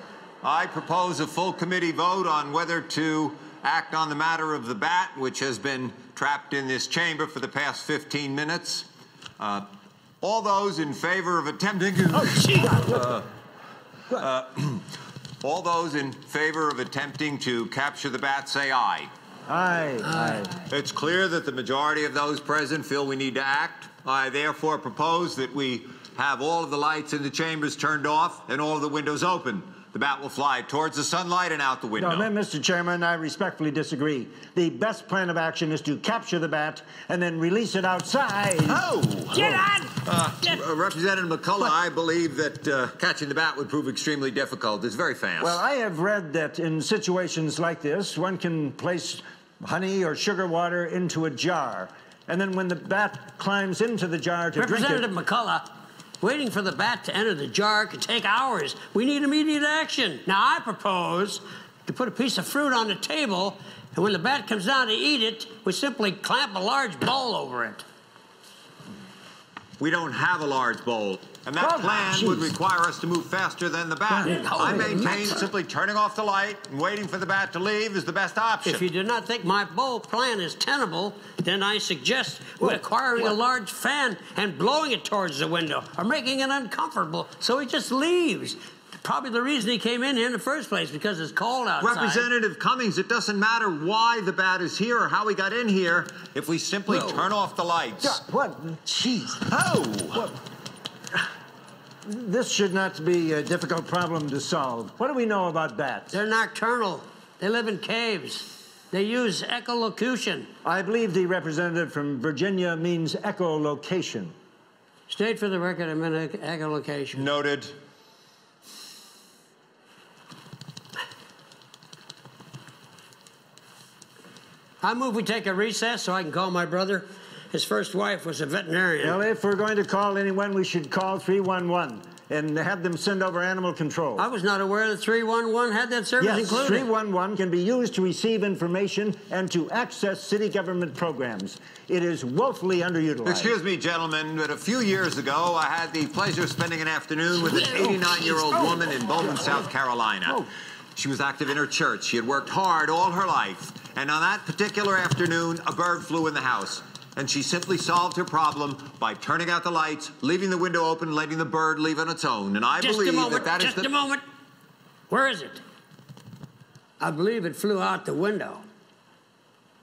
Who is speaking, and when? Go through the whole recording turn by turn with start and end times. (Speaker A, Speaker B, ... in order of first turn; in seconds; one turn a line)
Speaker A: 0.4-8.9
Speaker A: 9.4-9.7
Speaker A: 10.2-13.3
Speaker B: 12.3-13.1
Speaker C: 12.4-12.7
Speaker A: 14.1-14.9
Speaker A: 15.4-19.1
Speaker B: 19.5-20.5
Speaker A: 20.6-32.3
Speaker B: 32.0-38.8
Speaker A: 38.7-45.6
Speaker C: 39.3-40.6
Speaker B: 39.4-39.6
Speaker B: 45.4-55.1
Speaker C: 54.5-55.7
Speaker C: 56.2-67.8
Speaker A: 69.8-78.8
Speaker B: 71.6-72.5
Speaker C: 74.2-75.5
Speaker C: 78.7-92.3
Speaker A: 91.8-98.2
Speaker C: 96.9-97.2
Speaker B: 98.0-99.5
Speaker A: 99.5-100.3
Speaker B: 102.1-106.2
Speaker C: 106.1-110.5
Speaker B: 110.6-114.3
Speaker C: 115.1-117.3
Speaker A: 117.1-117.7
Speaker C: 124.8-129.2
Speaker B: 129.0-134.3
Speaker C: 134.2-136.9
Speaker B: 136.2-143.5
Speaker A: 143.2-150.4
Speaker A: 150.9-163.9
Speaker C: 162.8-164.2
Speaker C: 165.1-165.6
Speaker C: 167.0-168.6